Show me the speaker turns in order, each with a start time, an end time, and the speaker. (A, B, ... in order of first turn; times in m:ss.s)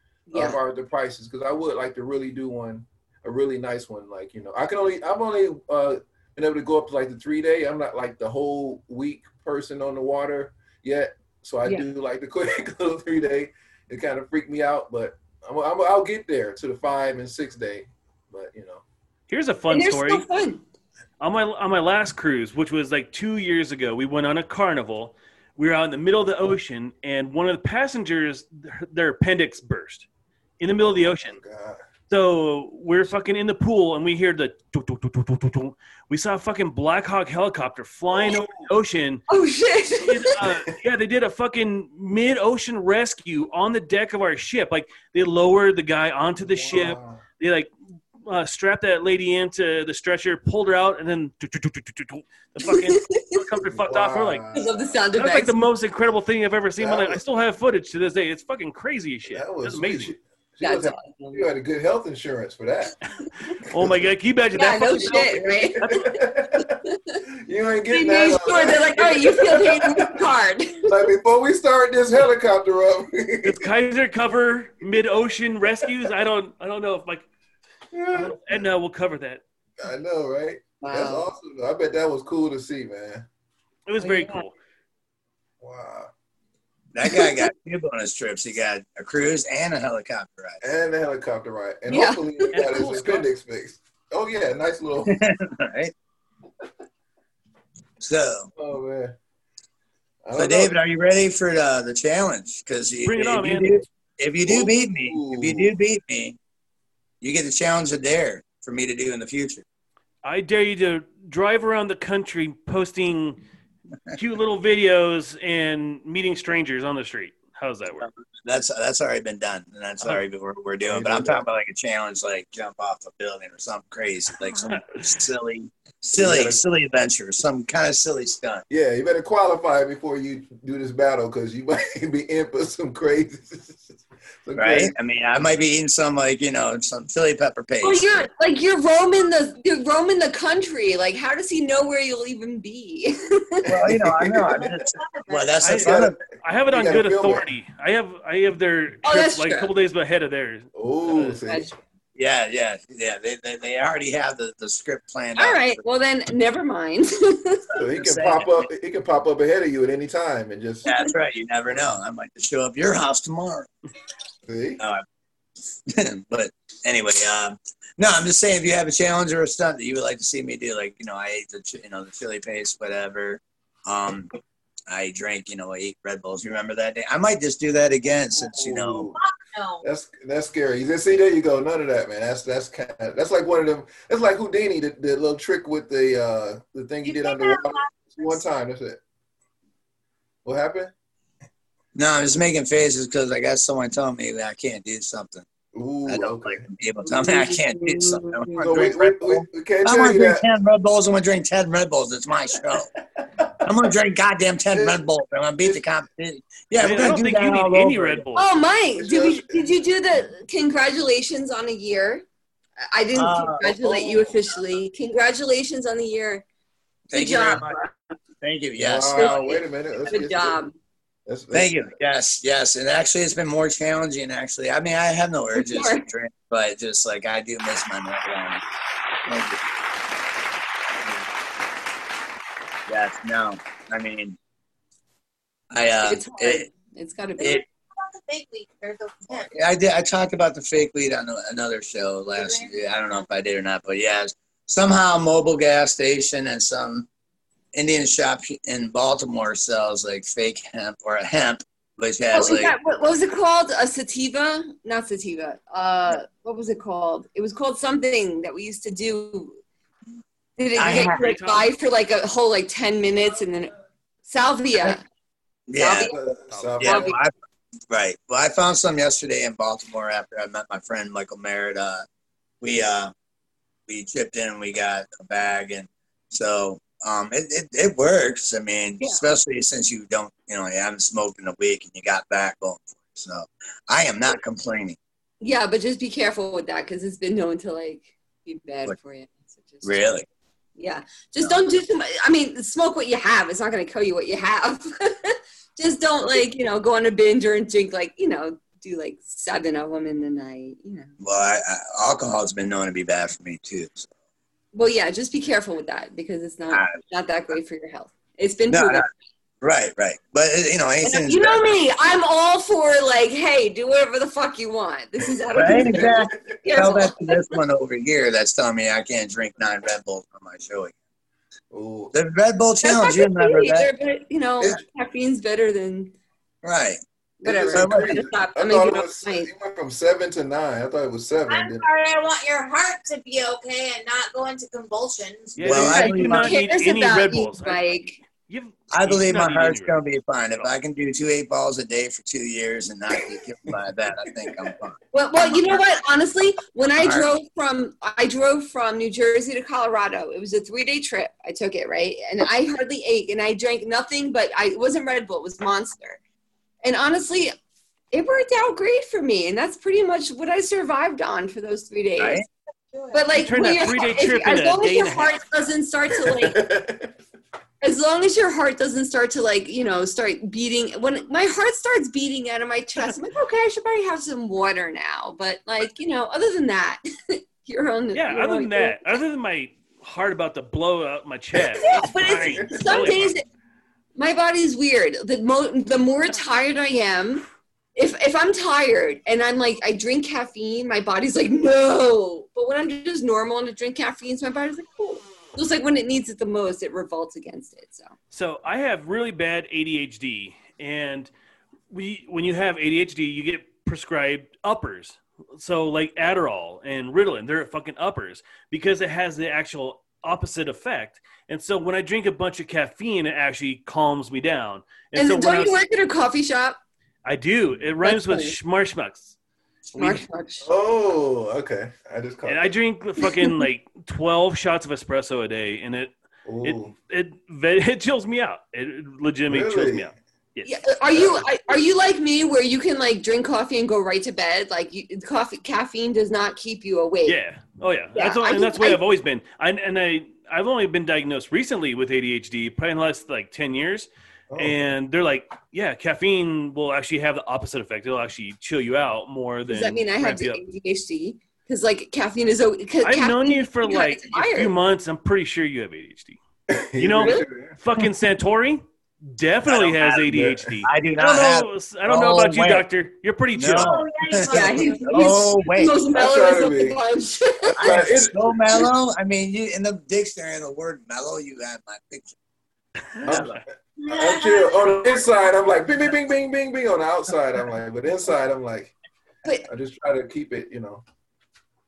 0:00.3-0:00.6 A
0:00.3-0:18.8 B
0:19.3-0:20.2 C
0:19.7-0:20.6 A
0:21.2-0:30.1 C
0:30.6-0:31.4 C
0:30.8-0:31.8 B
0:32.1-0:39.2 C
0:38.1-0:38.7 B
0:39.3-0:40.3 A
0:40.0-0:47.7 C
0:46.4-0:47.2 B
0:48.2-0:54.4 C
0:52.6-0:53.3 A
0:53.8-0:55.0 B
0:54.5-0:55.6 A
0:55.2-1:00.1 C
0:56.8-0:57.2 B
0:59.3-1:03.0 B
1:00.6-1:01.4 A
1:03.6-1:06.0 C
1:04.6-1:07.2 A
1:05.8-1:06.8 B
1:07.4-1:10.2 B
1:07.9-1:10.9 A
1:10.9-1:13.6 B
1:13.4-1:17.2 C
1:17.9-1:18.7 B
1:18.1-1:19.4 C
1:19.8-1:23.2 B
1:20.8-1:21.3 A
1:23.9-1:24.5 C
1:24.0-1:24.4 A
1:25.6-1:26.1 B
1:26.9-1:30.6 D
1:27.1-1:27.4 A
1:30.6-1:35.2 B
1:31.9-1:32.4 A
1:32.5-1:33.3 C
1:35.0-1:35.9 D
1:38.0-1:38.5 D
1:38.6-1:39.1 B
1:40.2-1:40.8 B
1:40.3-1:46.4 D
1:43.0-1:43.8 C
1:44.5-1:45.8 B
1:47.2-1:49.6 D
1:50.2-1:53.4 C
1:54.1-1:58.1 C
1:58.0-2:08.6 D
2:00.8-2:01.4 B
2:04.6-2:05.0 C
2:06.2-2:06.6 B
2:08.7-2:14.9 B
2:14.5-2:18.3 D
2:17.8-2:23.7 A
2:23.7-2:26.2 D
2:23.8-2:24.6 B
2:25.6-2:31.4 C
2:25.8-2:26.2 B
2:26.7-2:27.5 B
2:29.0-2:29.7 A
2:30.8-2:31.8 B
2:31.5-2:31.8 A
2:32.2-2:35.8 D
2:35.4-2:37.6 A
2:37.7-2:38.7 D
2:37.8-2:40.9 B
2:40.8-2:43.7 D
2:44.5-2:44.8 B
2:44.8-2:45.0 D
2:45.9-2:54.3 D
2:54.9-2:59.1 D
2:58.5-2:59.2 B
2:59.1-2:59.8 E
2:59.8-3:09.0 B
3:07.0-3:08.4 E
3:10.4-3:10.9 B
3:11.9-3:15.4 D
3:15.7-3:16.6 B
3:16.0-3:22.9 D
3:18.6-3:20.4 B
3:23.6-3:28.2 D
3:24.7-3:25.0 B
3:26.8-3:28.4 C
3:28.4-3:32.2 A
3:29.0-3:29.7 B
3:32.9-3:36.4 A
3:33.1-3:34.2 D
3:37.1-3:37.8 D
3:37.1-3:37.9 A
3:38.4-3:39.4 D
3:38.8-3:40.6 B
3:39.2-3:40.7 A
3:41.3-3:41.9 B
3:41.5-3:48.6 D
3:45.6-3:46.1 A
3:49.3-3:49.6 D
3:52.9-3:54.4 D
3:55.7-3:56.7 D
3:56.0-3:57.6 A
3:57.4-3:59.5 E
3:59.3-4:07.1 D
4:02.4-4:02.7 E
4:07.7-4:12.7 D
4:12.3-4:19.6 A
4:20.6-4:23.7 A
4:20.7-4:21.3 D
4:20.8-4:21.7 C
4:24.3-4:25.0 A
4:25.7-4:26.1 D
4:25.8-4:26.2 A
4:26.0-4:27.2 B
4:26.8-4:27.3 D
4:26.8-4:27.2 A
4:27.9-4:32.0 D
4:32.6-4:33.1 D
4:33.9-4:45.0 D
4:45.4-4:50.0 A
4:49.8-4:50.2 D
4:50.8-5:01.1 A
5:01.2-5:04.1 D
5:04.7-5:09.1 A
5:08.7-5:09.1 D
5:09.6-5:11.6 D
5:11.0-5:17.6 A
5:15.5-5:20.9 D
5:15.6-5:16.3 B
5:21.7-5:22.1 B
5:22.1-5:23.9 D
5:22.8-5:26.1 A
5:26.6-5:27.0 D
5:27.4-5:29.5 A
5:27.4-5:31.8 B
5:27.7-5:28.2 D
5:31.5-5:35.9 E
5:35.6-5:40.0 C
5:35.6-5:36.6 D
5:35.7-5:38.2 A
5:38.9-5:45.8 D
5:45.1-5:56.2 A
5:47.0-5:47.3 D
5:56.8-5:57.5 A
5:58.1-6:02.4 A
6:02.2-6:02.5 D
6:03.1-6:06.6 A
6:03.4-6:05.4 C
6:06.2-6:07.1 B
6:07.8-6:19.2 A
6:18.1-6:23.3 C
6:21.6-6:23.1 B
6:21.8-6:23.4 A
6:24.2-6:27.4 A
6:28.0-6:38.1 A
6:38.3-6:41.3 C
6:41.9-6:55.8 C
6:55.1-6:56.8 A
6:57.2-6:59.4 C
6:58.0-6:58.6 A
7:00.0-7:00.7 A
7:00.6-7:02.7 B
7:02.4-7:06.1 C
7:03.2-7:03.6 A
7:06.4-7:06.9 B
7:06.6-7:10.7 C
7:09.5-7:10.1 B
7:10.6-7:17.4 A
7:11.1-7:11.4 B
7:17.2-7:30.6 C
7:18.2-7:19.0 A
7:24.5-7:24.8 B
7:29.7-7:34.7 A
7:33.0-7:36.4 C
7:36.7-7:37.8 B
7:37.0-7:44.0 C
7:37.2-7:37.5 A
7:39.6-7:42.9 D
7:40.3-7:40.6 B
7:43.6-7:46.0 D
7:43.7-7:45.7 E
7:44.5-7:48.0 A
7:46.1-7:47.0 B
7:47.6-7:48.6 B
7:47.8-7:52.4 D
7:53.2-7:53.6 D
7:53.2-7:58.9 B
7:54.0-7:55.2 E
7:59.6-8:01.0 B